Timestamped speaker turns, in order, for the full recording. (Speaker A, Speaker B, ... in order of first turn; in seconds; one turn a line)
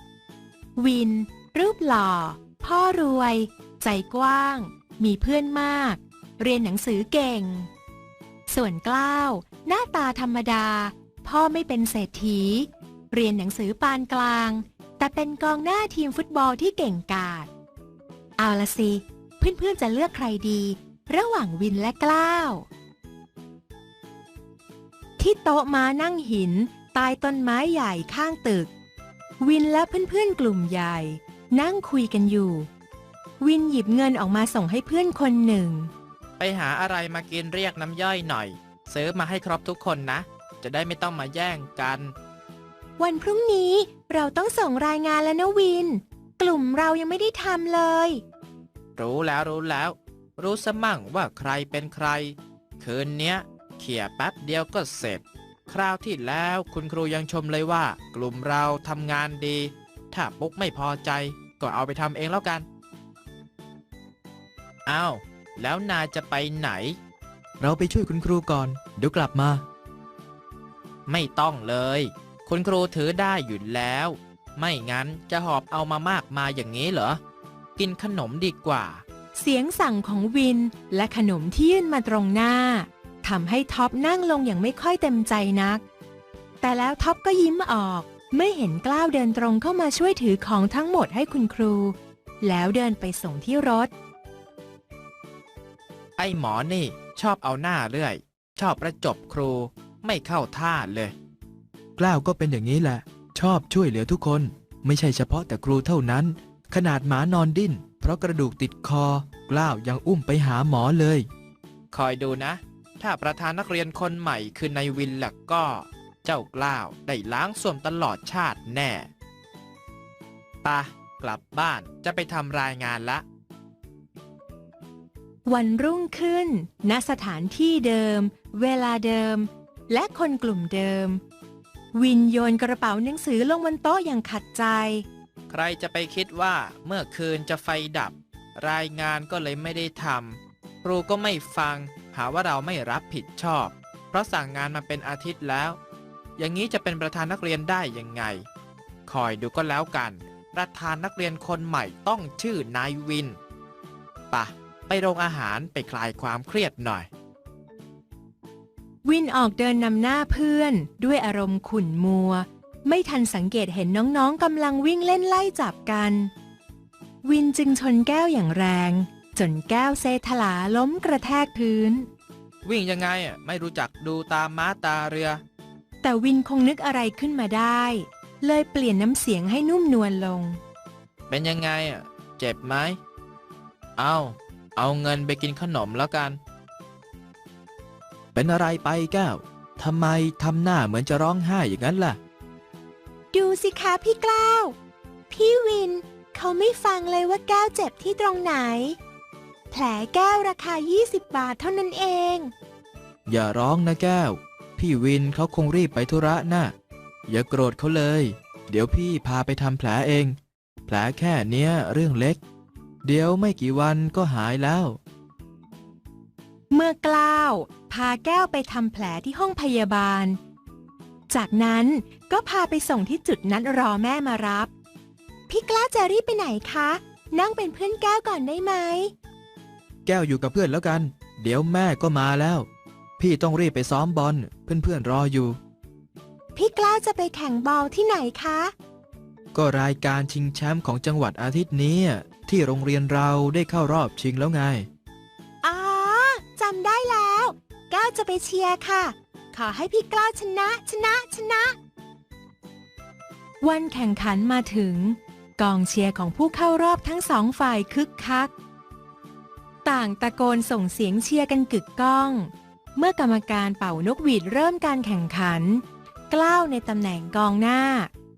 Speaker A: 0.8-7.7
Speaker A: 8.5-17.5
Speaker A: 18.4-22.7
Speaker A: 25.2-28.7
Speaker A: 29.4-32.7
Speaker A: 33.4-35.9
Speaker B: 36.4-42.1
Speaker A: 43.0-48.2
Speaker B: 49.0-62.7
Speaker B: 64.9-67.0
Speaker C: 67.6-69.7
Speaker B: 71.1-77.2
Speaker B: 77.8-79.0
Speaker A: 79.3-85.8
Speaker A: 86.6-93.9
Speaker B: 96.2-101.2
Speaker C: 102.0-111.3
Speaker B: 111.9-119.1
Speaker B: 120.6-123.2
Speaker A: 125.5-131.2
Speaker A: 131.9-135.1
Speaker B: 135.5-145.8
Speaker B: 146.4-148.4
Speaker B: 149.1-153.4
Speaker B: 154.3-157.1
Speaker A: 159.1-166.3
Speaker A: 167.2-172.1
Speaker B: 172.6-175.4
Speaker A: 176.0-180.6
Speaker B: 181.3-183.0
Speaker B: 184.0-186.4
Speaker C: 188.3-192.2
Speaker A: 193.3-194.8
Speaker A: 195.3-199.0
Speaker A: 199.7-202.5
Speaker C: 203.3-206.8
Speaker C: 207.3-212.4
Speaker C: 213.0-215.0
Speaker A: 216.7-220.4
Speaker A: 221.3-224.7
Speaker A: 225.5-229.1
Speaker C: 230.1-232.7
Speaker C: 233.2-235.6
Speaker A: 236.6-238.7
Speaker C: 239.5-244.9
Speaker A: 245.6-251.8
Speaker A: 253.6-258.5
Speaker A: 259.9-268.1